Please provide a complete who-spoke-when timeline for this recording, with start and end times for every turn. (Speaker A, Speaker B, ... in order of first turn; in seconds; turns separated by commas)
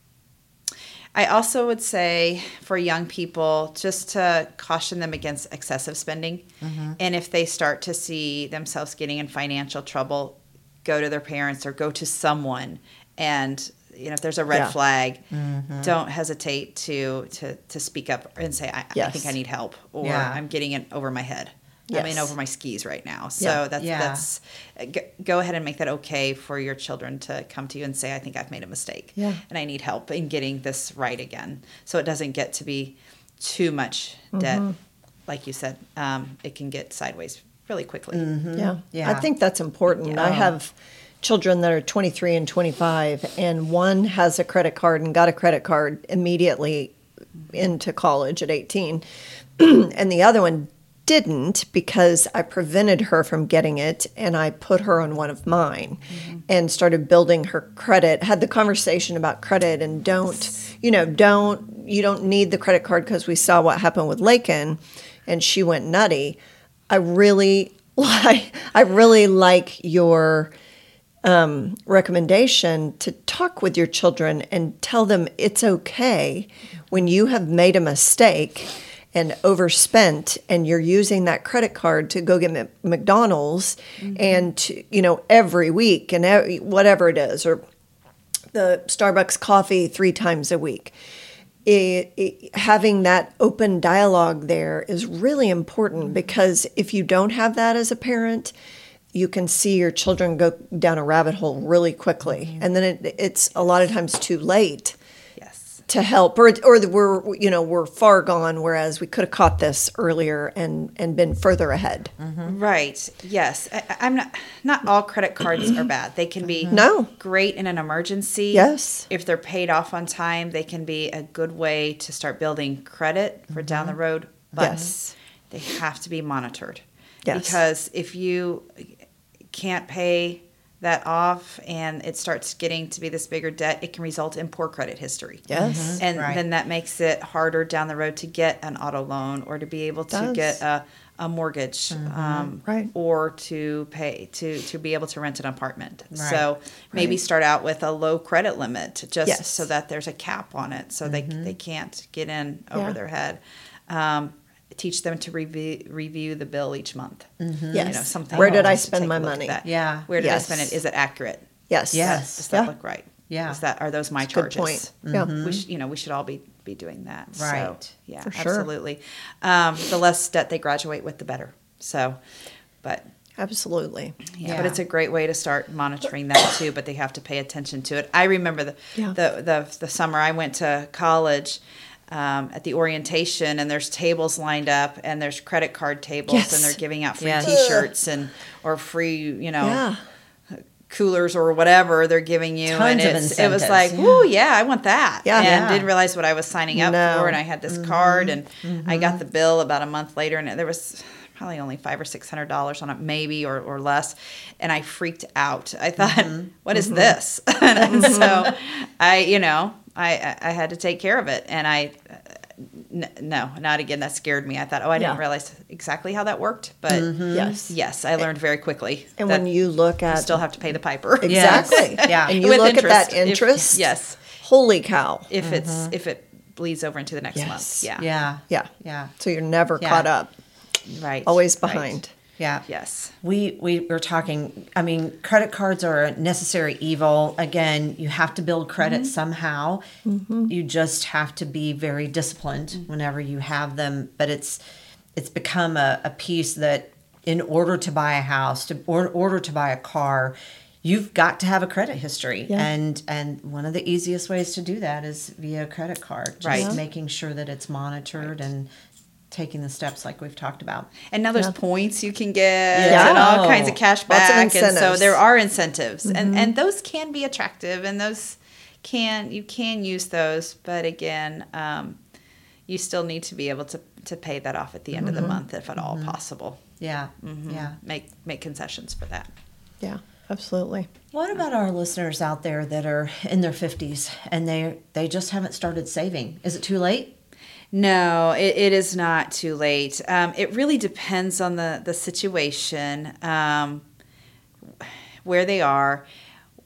Speaker A: 1.1-6.4, Speaker B: 6.6-7.0, Speaker A: 7.0-15.2, Speaker B: 15.3-15.9, Speaker A: 15.8-34.7, Speaker C: 18.9-19.4, Speaker B: 20.0-20.4, Speaker C: 21.9-22.3, Speaker B: 23.8-24.2, Speaker C: 34.3-34.7, Speaker A: 35.3-38.3, Speaker B: 38.1-39.3, Speaker C: 38.6-46.9, Speaker B: 40.1-40.5, Speaker C: 47.5-49.0, Speaker C: 49.6-66.4, Speaker A: 56.1-56.4, Speaker C: 66.9-70.5, Speaker C: 71.2-87.6, Speaker A: 84.0-84.5, Speaker C: 88.5-90.9, Speaker C: 91.7-98.5, Speaker C: 99.1-105.0, Speaker A: 105.4-105.8, Speaker C: 105.9-112.1, Speaker B: 112.2-112.6, Speaker A: 112.5-129.0, Speaker B: 116.5-116.8, Speaker C: 116.7-117.1, Speaker C: 118.5-119.1, Speaker B: 123.5-124.0, Speaker B: 124.5-124.9, Speaker C: 124.6-124.9, Speaker C: 127.3-127.6, Speaker A: 129.5-172.2, Speaker C: 135.5-136.0, Speaker B: 135.6-136.4, Speaker C: 140.1-140.6, Speaker B: 141.9-142.5, Speaker B: 146.1-146.4, Speaker C: 149.3-149.6, Speaker B: 151.1-151.5, Speaker B: 157.4-158.8, Speaker C: 157.7-159.6, Speaker B: 159.6-160.1, Speaker C: 160.2-160.7, Speaker C: 161.7-162.7, Speaker B: 161.9-162.5, Speaker B: 163.3-163.6, Speaker C: 164.3-165.3, Speaker B: 165.1-165.6, Speaker B: 167.4-167.9, Speaker C: 168.2-168.7, Speaker C: 173.4-174.2, Speaker A: 174.3-189.8, Speaker B: 174.4-174.8, Speaker C: 186.3-186.8, Speaker B: 187.2-187.6, Speaker C: 187.4-187.9, Speaker C: 189.6-190.0, Speaker A: 190.5-219.4, Speaker B: 192.7-194.2, Speaker C: 195.2-195.5, Speaker B: 195.4-195.9, Speaker C: 196.7-197.4, Speaker B: 197.7-199.2, Speaker B: 206.0-207.0, Speaker C: 207.9-208.4, Speaker B: 216.9-217.7, Speaker C: 217.3-217.6, Speaker C: 219.2-220.5, Speaker A: 220.1-224.2, Speaker C: 221.2-225.3, Speaker B: 221.3-222.4, Speaker A: 225.3-228.1, Speaker B: 225.4-225.9, Speaker C: 227.4-227.9, Speaker B: 228.0-229.1, Speaker C: 228.5-230.3, Speaker B: 229.8-230.1, Speaker A: 230.9-232.0, Speaker C: 231.3-232.1, Speaker B: 232.4-232.7, Speaker A: 232.7-233.1, Speaker B: 233.2-239.8, Speaker A: 238.8-239.1, Speaker C: 240.1-240.5, Speaker B: 240.5-244.6, Speaker B: 245.2-258.7, Speaker A: 256.4-256.8, Speaker B: 259.3-260.9, Speaker A: 261.1-272.0, Speaker B: 262.7-263.8, Speaker C: 262.9-263.2, Speaker C: 264.1-265.2, Speaker C: 266.1-266.5, Speaker A: 272.7-276.6, Speaker B: 274.9-276.1, Speaker C: 275.1-275.4, Speaker B: 276.8-277.8, Speaker A: 277.2-279.3, Speaker C: 279.8-280.9, Speaker B: 281.1-287.1, Speaker A: 287.7-293.8, Speaker A: 294.7-296.1